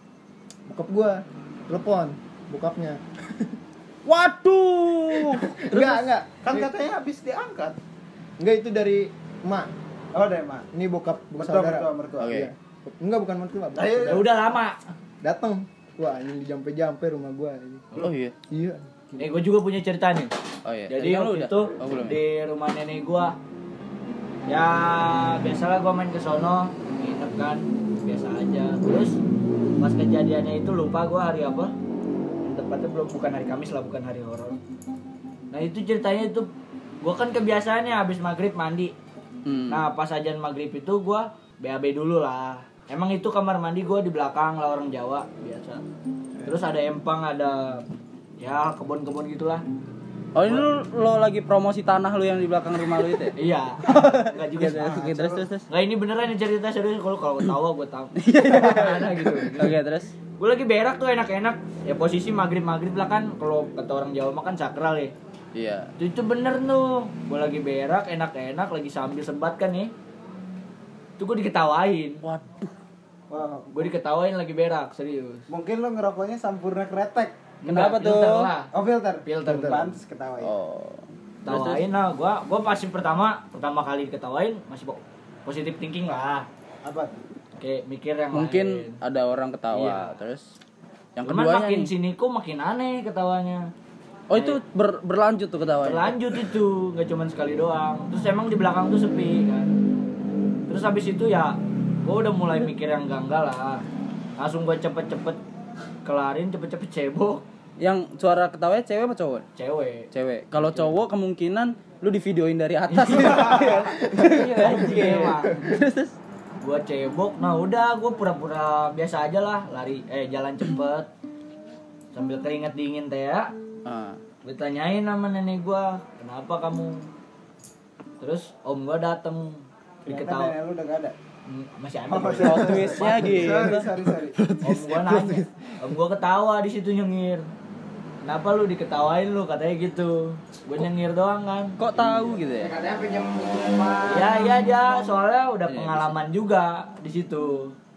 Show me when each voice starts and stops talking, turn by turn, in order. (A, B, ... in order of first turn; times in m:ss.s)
0:00.7-0:03.5 A
0:04.0-0:06.1 B
0:05.2-0:06.7 A
0:06.4-0:07.8 C
0:08.4-0:09.7 A
0:10.1-0:10.6 C
0:10.7-0:14.3 A
0:11.4-0:12.3 C
0:12.2-0:12.5 B
0:13.7-0:14.2 C
0:14.1-0:14.8 D
0:15.2-0:17.8 A
0:18.0-0:18.3 B
0:18.5-0:19.3 A
0:19.2-0:20.3 D
0:20.6-0:22.2 B
0:20.9-0:23.4 D
0:24.5-0:29.2 D
0:29.8-0:31.7 D
0:32.4-0:34.6 D
0:35.5-0:36.5 D
0:37.0-0:38.9 D
0:39.4-0:39.8 B
0:39.7-0:45.8 D
0:46.4-0:47.8 D
0:48.4-0:49.6 D
0:50.3-0:53.3 B
0:50.4-0:50.7 D
0:53.3-0:55.0 D
0:53.8-0:55.7 B
0:54.6-0:55.5 C
0:55.7-0:59.7 D
0:58.2-1:00.1 B
1:00.4-1:05.1 D
1:05.5-1:05.9 B
1:06.0-1:09.9 D
1:11.2-1:12.2 D
1:12.2-1:12.7 B
1:13.3-1:13.9 C
1:13.7-1:15.4 D
1:15.5-1:17.4 C
1:17.6-1:18.7 D
1:17.6-1:18.5 B
1:18.7-1:20.5 C
1:19.2-1:20.0 D
1:20.4-1:21.9 B
1:21.4-1:26.5 D
1:26.8-1:27.1 C
1:27.6-1:29.0 D
1:28.3-1:30.5 B
1:29.7-1:30.1 D
1:31.2-1:31.9 B
1:31.2-1:33.7 D
1:34.3-1:36.2 B
1:34.3-1:34.6 D
1:35.8-1:39.7 D
1:40.7-1:43.8 D
1:44.4-1:45.4 D
1:46.0-1:47.4 D
1:47.8-1:49.4 B
1:49.6-1:50.1 D
1:50.1-1:56.2 B
1:52.9-1:55.6 D
1:54.1-1:55.7 A
1:56.6-2:01.1 D
2:02.1-2:03.5 D
2:03.8-2:04.2 B
2:04.4-2:07.1 D
2:08.2-2:10.5 D
2:10.0-2:11.1 C
2:11.4-2:13.5 D
2:12.1-2:14.4 C
2:12.4-2:15.3 B
2:14.6-2:17.4 D
2:18.2-2:21.8 D
2:21.8-2:22.8 B
2:22.4-2:24.5 E
2:24.0-2:27.7 D
2:25.7-2:26.2 B